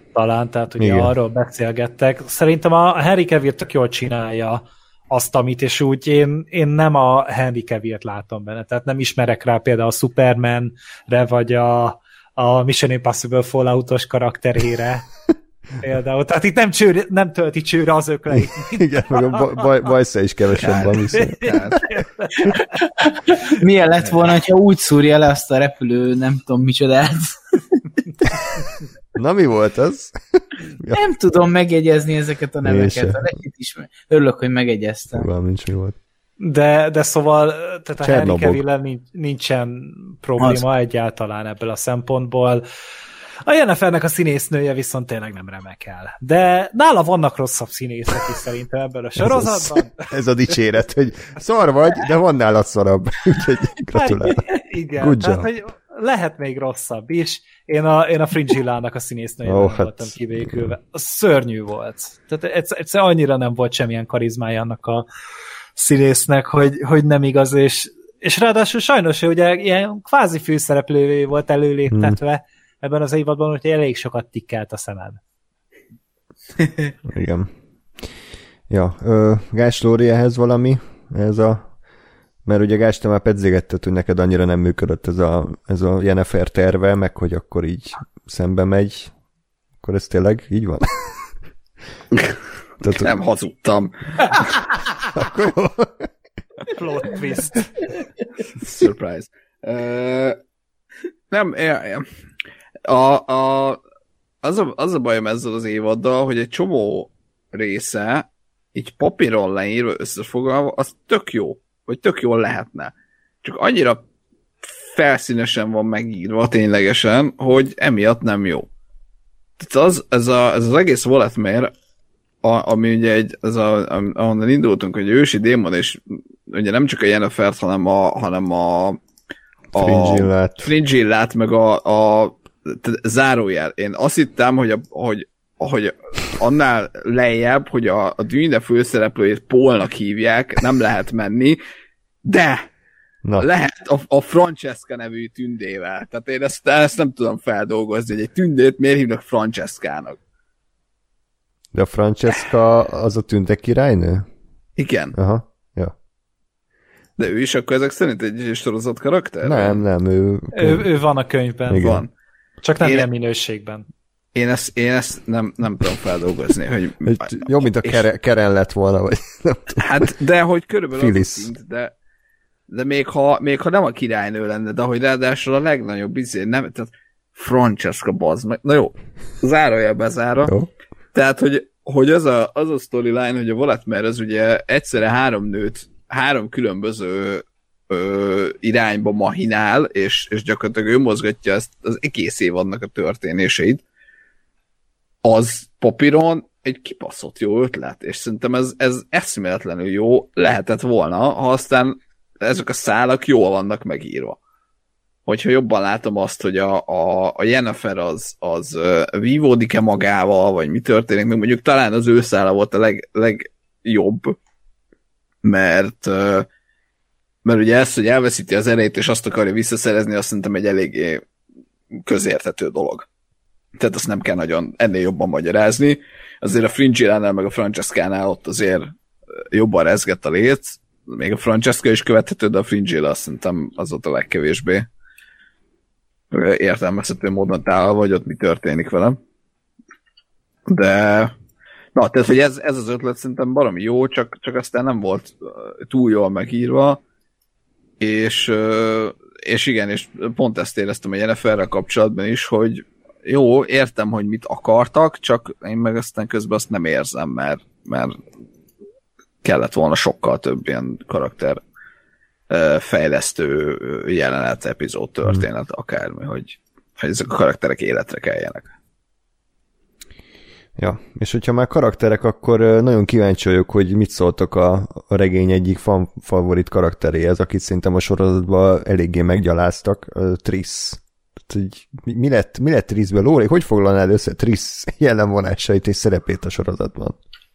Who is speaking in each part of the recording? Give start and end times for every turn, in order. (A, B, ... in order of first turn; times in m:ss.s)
0:00.1-0:15.1 A
0:00.8-0:01.1 B
0:15.8-0:19.6 A
0:18.4-0:21.4 B
0:20.6-0:21.8 C
0:21.1-0:22.6 A
0:22.4-0:28.4 D
0:29.2-0:31.0 B
0:30.9-0:35.3 D
0:32.6-0:33.2 B
0:35.1-0:36.0 B
0:36.4-0:42.6 A
0:38.0-0:38.6 B
0:43.5-0:50.1 A
0:49.2-0:54.5 B
0:54.0-1:05.1 A
0:55.0-0:55.5 B
0:59.4-1:00.7 B
1:05.8-1:15.2 A
1:11.9-1:12.2 B
1:17.1-1:17.5 B
1:18.7-1:21.7 B
1:22.4-1:29.1 B
1:29.8-1:31.3 B
1:32.8-1:33.1 B
1:32.9-1:34.6 C
1:35.1-1:36.1 B
1:36.7-1:37.7 A
1:38.6-1:40.4 C
1:41.3-1:42.1 C
1:42.8-1:43.8 C
1:44.4-1:54.0 C
1:54.6-1:58.7 C
1:59.6-2:01.7 C
2:02.4-2:09.0 C
2:09.7-2:10.7 B
2:09.7-2:21.6 C
2:22.2-2:22.7 C
2:23.4-2:30.2 C
2:31.7-2:34.2 B
2:34.8-2:35.2 C
2:35.1-2:35.9 B
2:37.2-2:39.8 C
2:39.4-2:40.9 B
2:40.5-2:41.9 A
2:41.7-2:42.0 B
2:41.8-2:42.1 C
2:42.6-2:43.8 A
2:44.4-2:48.0 C
2:47.0-2:50.1 B
2:49.8-2:51.9 C
2:51.0-2:51.5 B
2:52.7-3:00.5 C
3:00.4-3:00.7 B
3:01.1-3:13.8 C
3:15.2-3:24.4 C
3:25.3-3:34.4 C
3:35.4-3:36.5 C
3:37.4-3:41.2 C
3:41.9-3:43.1 C
3:43.8-3:48.9 C
3:49.5-3:54.9 C
3:56.3-3:59.2 C
4:00.7-4:01.3 C
4:02.0-4:07.0 C
4:08.0-4:18.2 C
4:19.4-4:21.6 C
4:22.5-4:28.7 C
4:30.8-4:47.2 B